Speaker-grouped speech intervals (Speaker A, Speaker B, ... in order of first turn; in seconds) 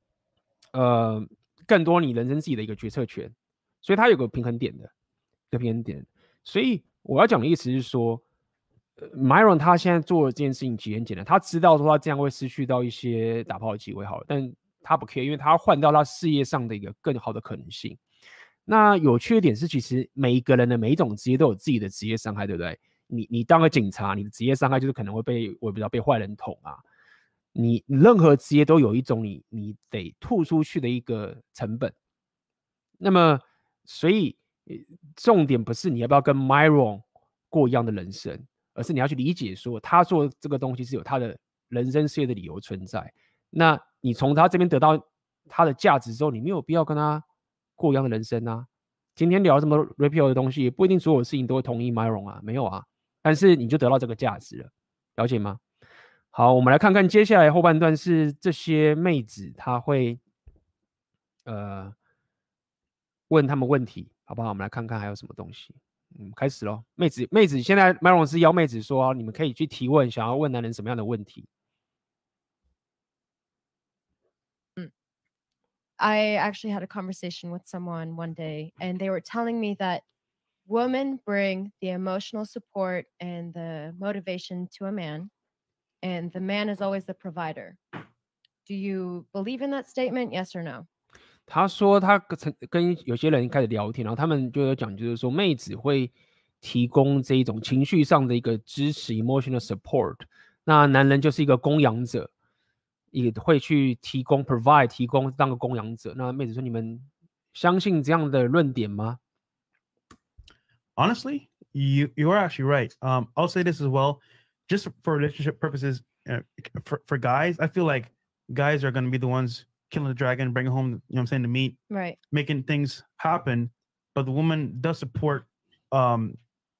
Speaker A: 0.7-4.9, 5.5-8.2, 9.0-18.0, 18.7-26.8, 27.5-31.9, 33.0-47.2, 47.8-55.6, 56.3-60.2, 61.5-61.9, 63.3-71.5, 91.5-102.3, 103.1-109.2
Speaker B: 76.0-80.0, 80.7-85.3, 86.0-87.8, 88.7-90.9, 121.9-122.2
Speaker C: 111.0-121.8, 122.3-126.4